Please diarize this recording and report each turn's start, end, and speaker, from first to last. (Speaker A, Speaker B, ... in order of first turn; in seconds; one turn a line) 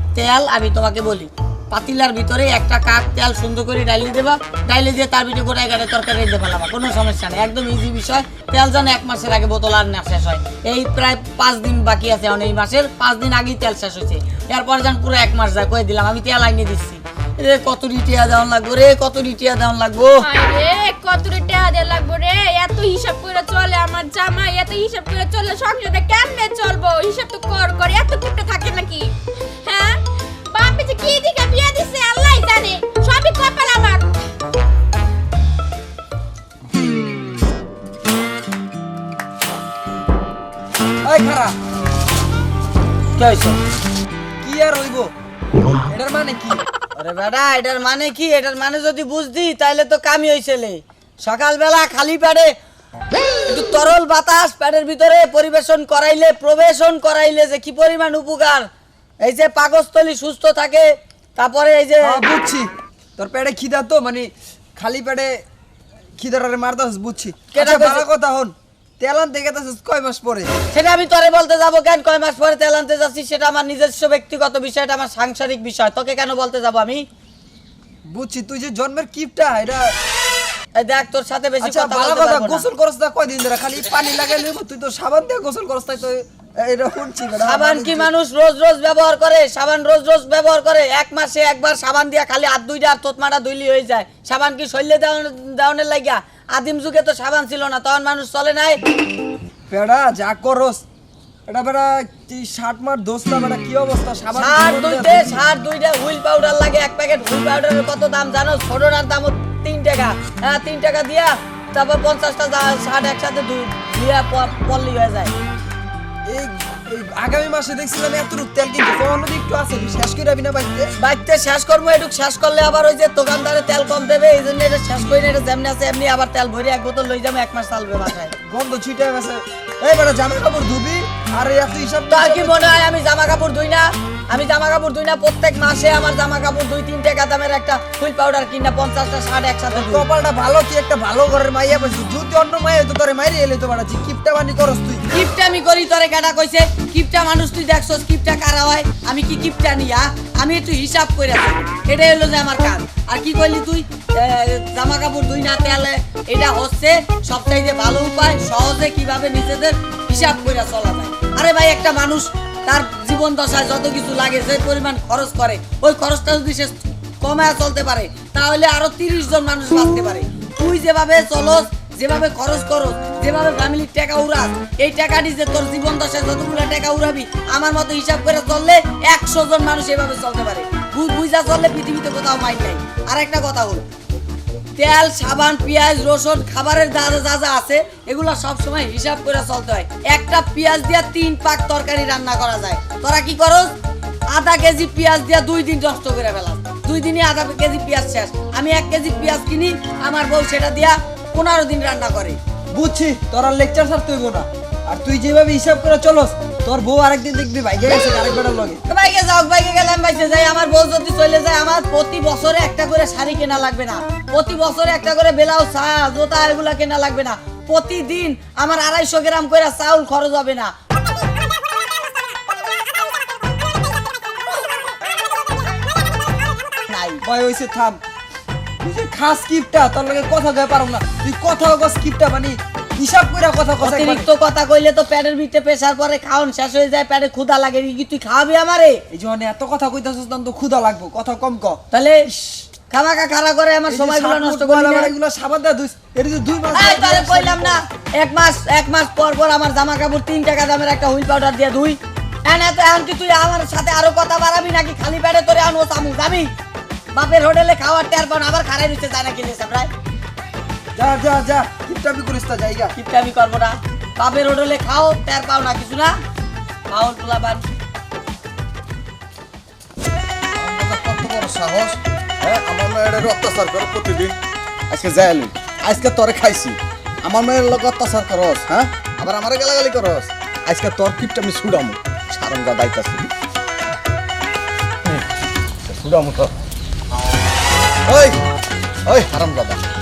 Speaker A: 0.1-20.3
Speaker B: 20.2-34.1
Speaker C: 41.0-41.6
Speaker A: 43.2-43.6
Speaker C: 44.4-45.1
Speaker C: 45.9-46.6
Speaker A: 47.0-52.5
Speaker A: 53.5-58.7
Speaker A: 59.2-62.2
Speaker C: 62.0-65.4
Speaker C: 66.2-70.5
Speaker A: 67.5-68.0
Speaker A: 70.7-77.1
Speaker C: 78.0-80.0
Speaker A: 80.8-82.7
Speaker C: 81.6-88.1
Speaker A: 87.4-98.8
Speaker C: 99.7-100.8
Speaker C: 101.5-105.4
Speaker A: 104.4-115.3
Speaker C: 116.3-120.9
Speaker A: 121.0-128.3
Speaker C: 128.4-132.8
Speaker A: 132.1-140.1
Speaker C: 139.7-145.0
Speaker A: 145.1-183.8
Speaker A: 184.8-193.7
Speaker A: 194.3-202.4
Speaker C: 202.7-208.8
Speaker A: 208.9-220.7
Speaker A: 226.9-227.2
Speaker C: 227.2-228.0
Speaker C: 228.8-234.3
Speaker A: 233.8-239.0
Speaker C: 239.1-241.8
Speaker A: 241.9-242.3
Speaker A: 242.9-245.1
Speaker C: 243.9-247.8
Speaker A: 246.7-256.5
Speaker A: 257.1-259.9
Speaker C: 261.0-262.9
Speaker A: 263.0-266.1
Speaker A: 266.9-267.6
Speaker D: 270.6-274.4
Speaker D: 274.9-283.3
Speaker D: 285.9-286.5
Speaker D: 288.1-288.4
Speaker D: 289.1-289.8